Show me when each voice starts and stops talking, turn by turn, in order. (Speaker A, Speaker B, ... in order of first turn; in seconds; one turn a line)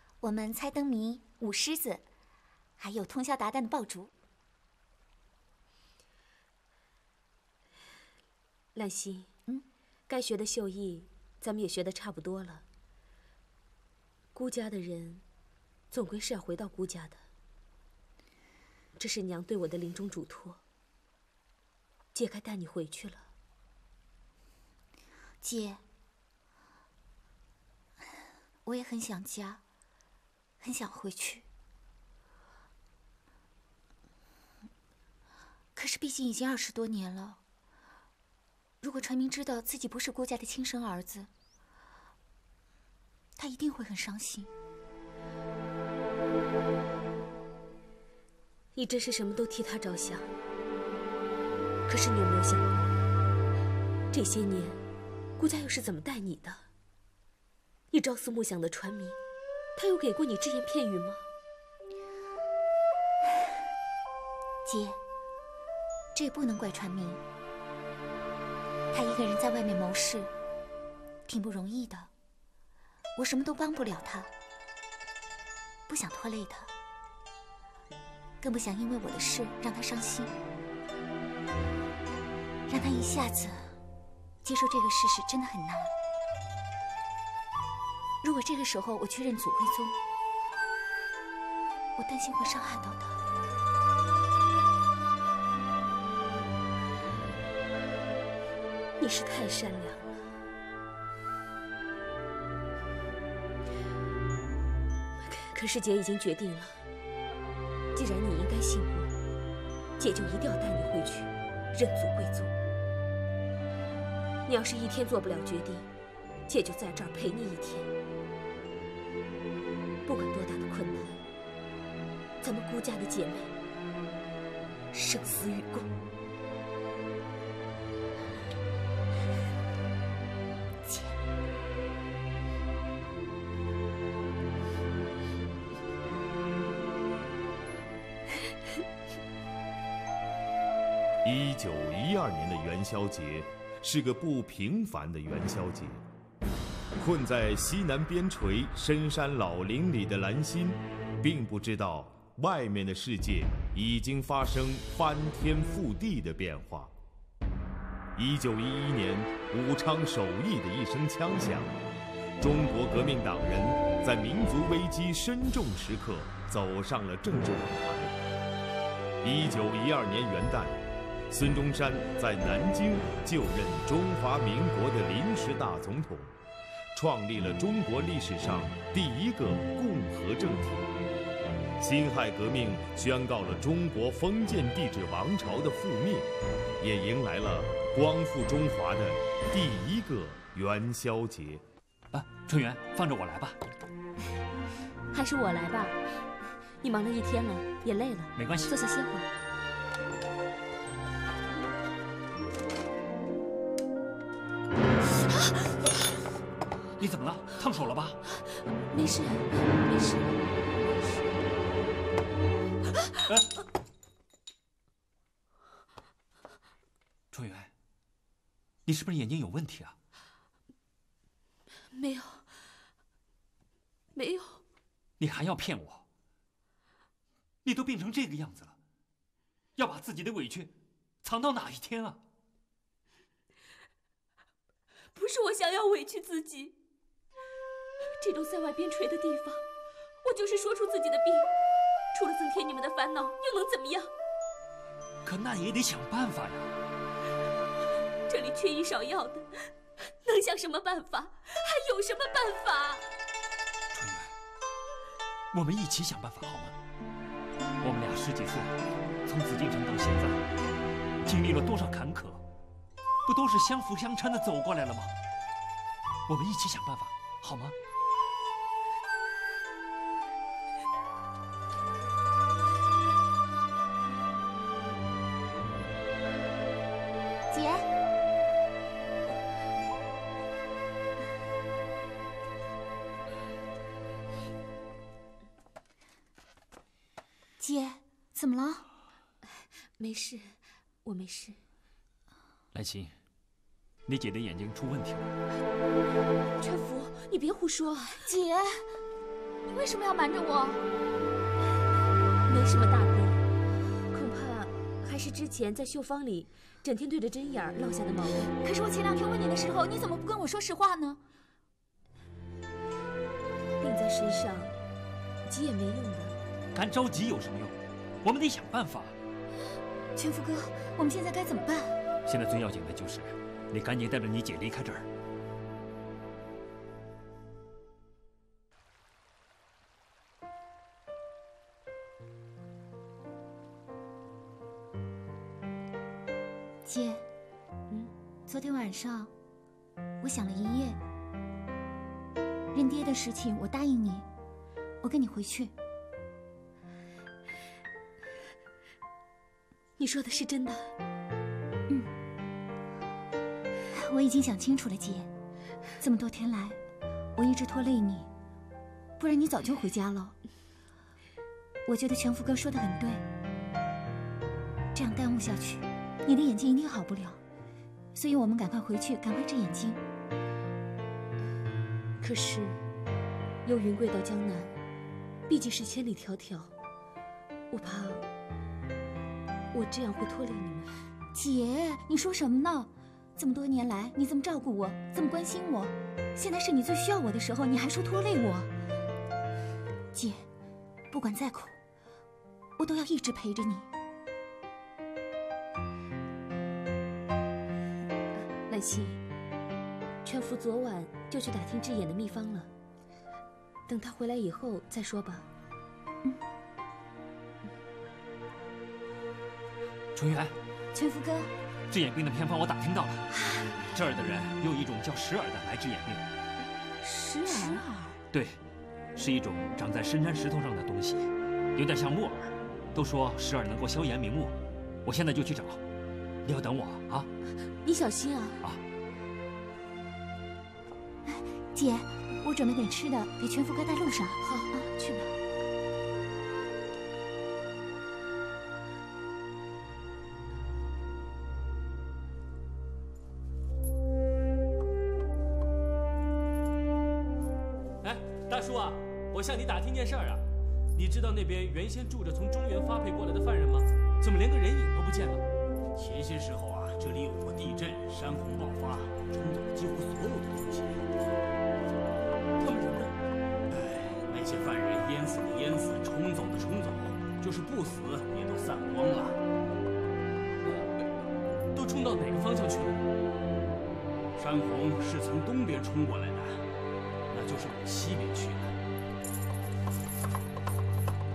Speaker A: 0.2-2.0
Speaker A: 2.8-4.1
Speaker B: 8.7-9.3
Speaker B: 10.1-12.6
Speaker B: 14.3-15.2
Speaker B: 15.9-17.2
Speaker B: 19.0-20.6
Speaker B: 22.1-23.3
Speaker A: 25.4-25.8
Speaker A: 28.6-29.6
Speaker A: 30.6-31.4
Speaker A: 35.7-37.4
Speaker A: 38.8-41.3
Speaker A: 43.4-44.5
Speaker B: 48.7-50.3
Speaker B: 51.9-52.9
Speaker B: 54.1-54.8
Speaker B: 55.4-56.6
Speaker B: 57.9-59.2
Speaker B: 59.8-61.3
Speaker A: 64.6-65.0
Speaker A: 66.1-67.2
Speaker A: 68.9-70.3
Speaker A: 71.3-72.1
Speaker A: 73.2-74.3
Speaker A: 75.9-76.7
Speaker A: 78.4-80.3
Speaker A: 82.7-83.8
Speaker A: 84.4-85.9
Speaker A: 88.2-90.0
Speaker A: 92.0-93.2
Speaker B: 99.0-100.3
Speaker B: 105.2-106.8
Speaker B: 108.0-109.1
Speaker B: 110.0-112.5
Speaker B: 114.5-115.9
Speaker B: 116.5-117.9
Speaker B: 120.0-121.2
Speaker B: 122.4-123.5
Speaker B: 124.9-125.9
Speaker A: 130.9-131.1
Speaker C: 141.2-146.0
Speaker C: 147.0-156.9
Speaker C: 158.1-161.8
Speaker C: 162.4-168.2
Speaker C: 169.2-176.3
Speaker C: 176.9-180.9
Speaker C: 181.8-191.6
Speaker D: 192.1-193.6
Speaker B: 195.1-196.0
Speaker B: 196.8-199.3
Speaker D: 198.4-198.7
Speaker D: 207.0-208.2
Speaker B: 208.9-210.4
Speaker D: 217.3-217.7
Speaker D: 218.9-219.9
Speaker B: 221.9-222.5
Speaker B: 224.1-224.6
Speaker D: 225.2-226.0
Speaker D: 227.6-228.8
Speaker D: 229.8-230.7
Speaker D: 231.2-232.2
Speaker B: 235.1-236.8
Speaker B: 238.2-239.6
Speaker B: 240.2-241.5
Speaker B: 242.1-244.1
Speaker D: 245.2-246.7
Speaker B: 248.3-253.1
Speaker D: 253.9-254.3
Speaker D: 255.5-256.8
Speaker D: 257.8-260.4
Speaker D: 261.2-262.4
Speaker D: 263.3-265.1
Speaker D: 266.3-267.7
Speaker A: 277.5-277.9
Speaker A: 287.6-288.9
Speaker B: 289.6-291.6
Speaker D: 292.7-293.1
Speaker D: 294.1-295.3
Speaker B: 296.6-298.3
Speaker A: 298.3-298.9
Speaker A: 299.8-300.6
Speaker B: 302.5-303.4
Speaker B: 304.1-308.6
Speaker A: 308.6-311.2
Speaker B: 313.8-314.7
Speaker B: 315.5-316.4
Speaker D: 316.7-319.2
Speaker A: 320.2-322.0
Speaker D: 322.3-325.1
Speaker A: 336.9-337.2
Speaker A: 338.5-339.3
Speaker A: 340.2-341.0
Speaker A: 342.7-344.3
Speaker A: 345.0-345.7
Speaker B: 350.0-350.9
Speaker A: 353.9-355.3
Speaker A: 356.0-356.8
Speaker A: 357.4-358.3
Speaker A: 359.2-360.4
Speaker A: 361.9-363.2
Speaker A: 364.9-367.4
Speaker A: 368.1-370.0
Speaker B: 372.2-372.8
Speaker B: 373.6-374.7
Speaker B: 375.5-376.7
Speaker B: 377.7-378.3
Speaker B: 379.7-381.0
Speaker A: 381.4-388.7
Speaker A: 390.1-390.4
Speaker A: 391.1-391.8
Speaker A: 392.8-393.9
Speaker B: 398.4-399.2
Speaker B: 400.2-402.7
Speaker B: 403.9-405.5
Speaker D: 410.1-410.6
Speaker A: 410.9-411.5
Speaker D: 411.9-413.3
Speaker D: 413.9-416.2
Speaker A: 417.0-418.2
Speaker D: 418.3-418.6
Speaker D: 419.1-425.8
Speaker D: 426.4-427.3
Speaker B: 427.8-428.6
Speaker A: 431.2-434.9
Speaker B: 434.4-435.3
Speaker E: 448.0-450.4
Speaker E: 450.9-455.4
Speaker F: 455.9-461.3
Speaker E: 462.6-463.2
Speaker F: 463.7-469.4
Speaker E: 471.7-473.0
Speaker F: 474.4-476.6
Speaker F: 477.3-478.8